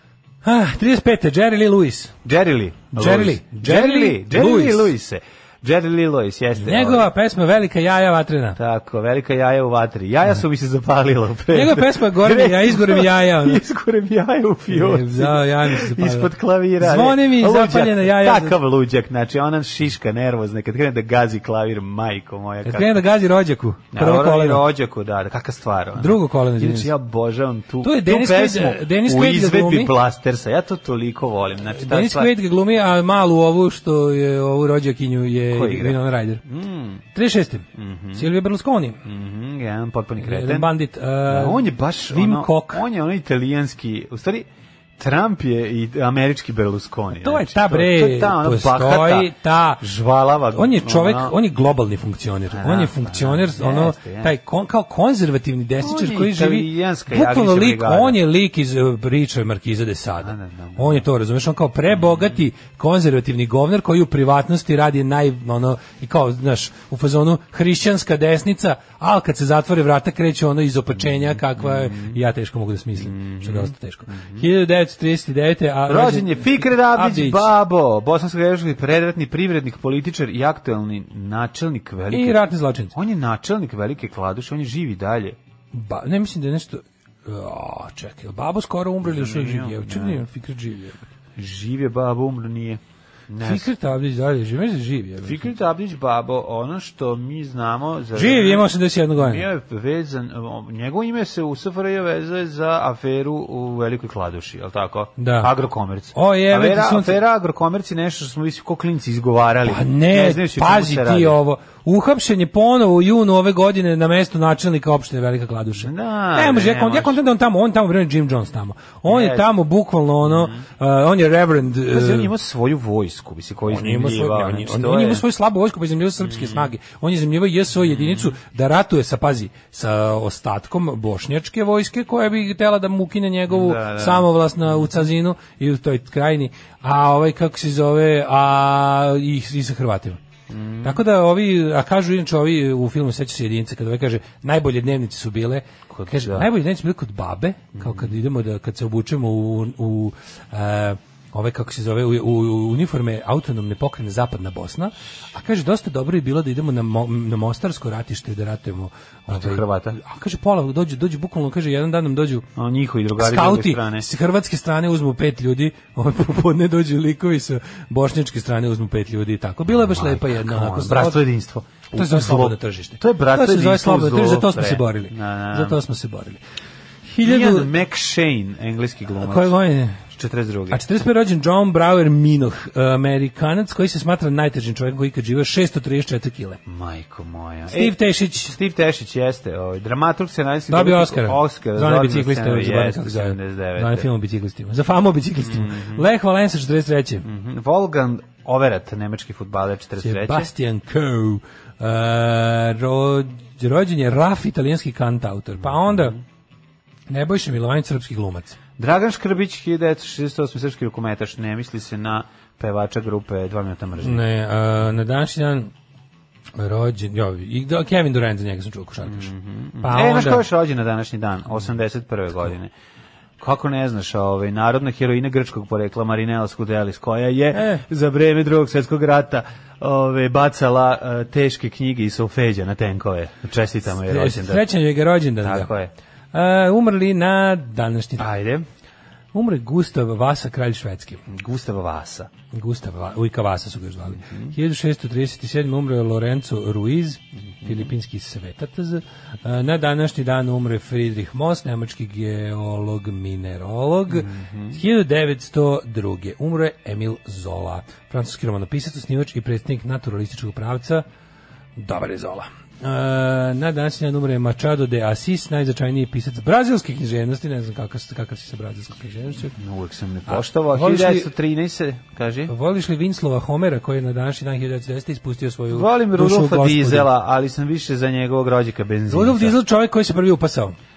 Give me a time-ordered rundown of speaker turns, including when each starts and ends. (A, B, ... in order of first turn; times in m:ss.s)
0:00.4-0:02.1 A
0:02.2-0:07.1 B
0:02.9-0:04.9 A
0:06.6-0:08.6 A
0:08.6-0:23.0 B
0:11.5-0:13.6 A
0:14.7-0:18.6 A
0:22.6-0:24.6 A
0:23.9-0:32.3 B
0:26.0-0:26.9 A
0:27.8-0:30.0 A
0:31.7-0:36.4 A
0:35.5-0:37.0 B
0:37.1-0:39.0 A
0:37.8-0:38.3 B
0:39.0-0:40.7 B
0:40.2-0:42.8 A
0:41.3-0:44.5 B
0:45.0-0:51.4 B
0:47.2-0:49.8 A
0:50.5-1:17.5 A
0:52.5-0:54.3 B
0:55.8-0:58.2 B
1:00.2-1:01.0 B
1:01.9-1:02.4 B
1:11.6-1:12.2 B
1:13.0-1:14.5 B
1:15.9-1:22.4 B
1:22.1-1:22.9 A
1:22.9-1:25.4 B
1:25.7-1:31.0 A
1:29.0-1:30.2 B
1:31.4-1:33.7 B
1:33.4-1:35.5 A
1:35.2-1:38.7 B
1:38.2-1:39.5 A
1:39.2-1:51.4 B
1:45.2-1:45.5 A
1:46.1-1:47.2 A
1:49.6-2:02.3 A
1:55.8-1:57.2 B
1:59.1-1:59.5 B
2:00.2-2:00.6 B
2:01.9-2:05.2 B
2:03.7-2:20.2 A
2:06.3-2:06.7 B
2:07.9-2:08.3 B
2:13.5-2:14.3 B
2:20.5-2:21.0 B
2:20.8-2:42.5 A
2:25.9-2:26.5 B
2:27.8-2:28.2 B
2:39.3-2:40.0 B
2:42.6-2:44.1 B
2:43.2-2:51.2 A
2:49.7-2:55.8 B
2:51.9-2:56.4 A
2:57.1-2:57.7 A
2:57.2-2:59.5 B
2:59.2-3:00.0 A
3:00.2-3:00.8 B
3:00.7-3:06.6 A
3:06.7-3:14.1 B
3:07.7-3:08.6 A
3:10.7-3:17.3 A
3:15.4-3:16.0 B
3:17.2-3:20.5 B
3:20.0-3:26.2 A
3:25.6-3:26.2 B
3:27.1-3:28.6 A
3:28.8-3:34.2 B
3:34.0-3:35.7 A
3:36.6-3:39.3 A
3:39.1-3:42.7 B
3:39.8-3:40.5 A
3:43.4-3:54.6 B
3:47.5-3:47.8 A
3:54.1-3:55.7 A
3:55.4-3:55.9 B
3:56.3-3:58.3 A
3:58.2-3:58.7 B
3:59.3-4:01.2 A
4:01.3-4:02.3 B
4:02.5-4:21.0 A
4:04.1-4:04.6 B
4:14.1-4:14.8 B
4:21.8-4:29.6 A
4:29.6-4:32.5 B
4:30.3-4:31.3 A
4:32.5-4:37.1 A
4:35.7-4:39.6 B
4:39.1-4:40.8 A